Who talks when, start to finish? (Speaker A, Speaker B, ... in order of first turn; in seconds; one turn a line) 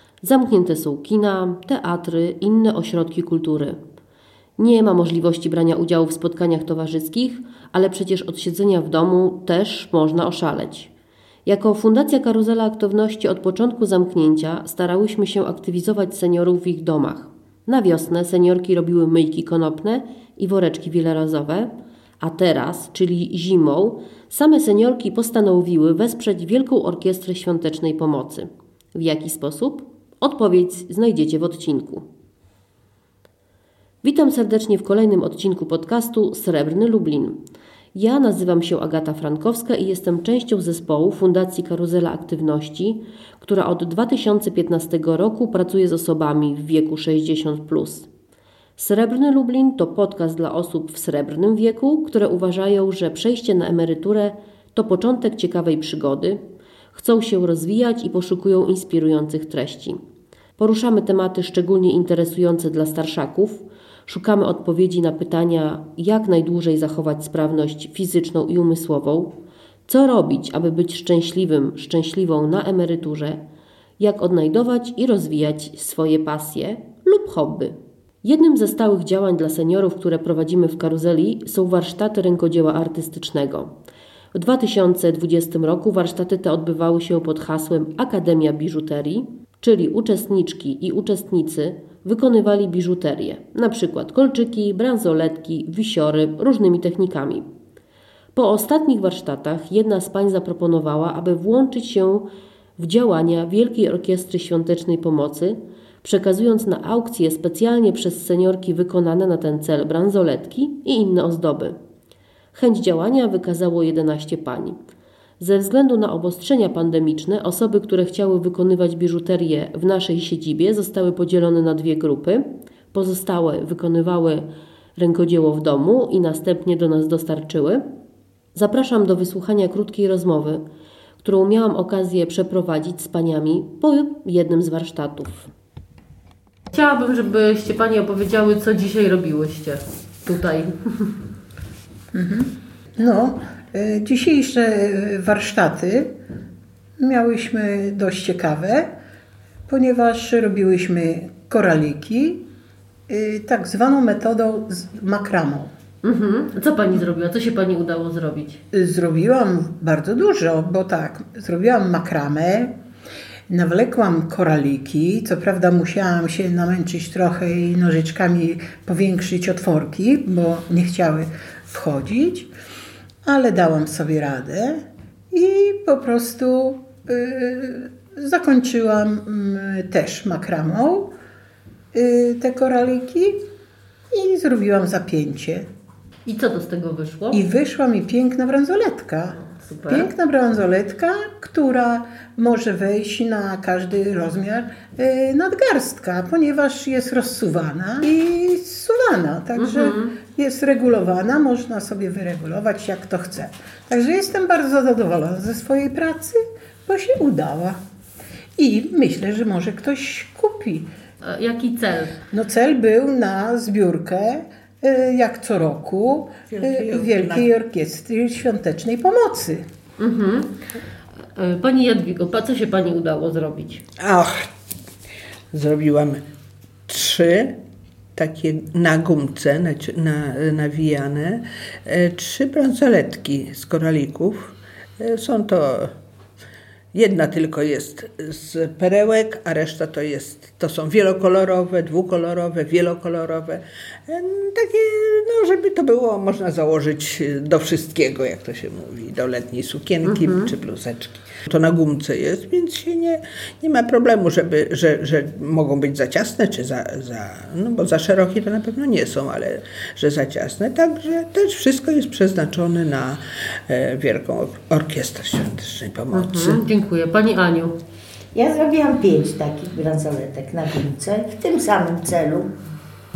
Speaker A: 0.2-3.8
Speaker A: 4.6-10.9
Speaker A: 11.5-32.0
Speaker A: 34.0-37.4
Speaker A: 37.9-48.1
Speaker A: 48.8-56.4
Speaker A: 56.9-60.0
Speaker A: 60.6-69.3
Speaker A: 69.9-73.4
Speaker A: 74.0-83.7
Speaker A: 84.3-97.5
Speaker A: 98.3-111.8
Speaker A: 112.5-114.8
Speaker A: 115.4-127.8
Speaker A: 128.6-130.6
Speaker A: 131.2-135.5
Speaker A: 136.7-141.1
Speaker B: 142.1-146.1
Speaker B: 147.0-148.9
Speaker B: 149.7-152.4
Speaker B: 153.1-155.7
Speaker A: 156.0-158.6
Speaker B: 158.7-162.7
Speaker B: 163.5-172.5
Speaker B: 173.2-181.1
Speaker B: 181.9-183.4
Speaker B: 184.1-185.7
Speaker A: 186.3-187.4
Speaker B: 187.3-207.8
Speaker A: 189.5-190.1
Speaker A: 199.6-200.2
Speaker B: 208.6-210.9
Speaker A: 211.2-212.2
Speaker B: 212.3-219.6
Speaker C: 216.5-217.5
Speaker A: 220.0-220.5
Speaker A: 221.4-223.8
Speaker C: 224.0-224.5
Speaker C: 225.5-226.2
Speaker C: 226.9-227.6
Speaker C: 228.2-235.9
Speaker C: 236.9-266.6
Speaker A: 250.1-250.5
Speaker A: 266.1-267.7
Speaker D: 268.4-272.5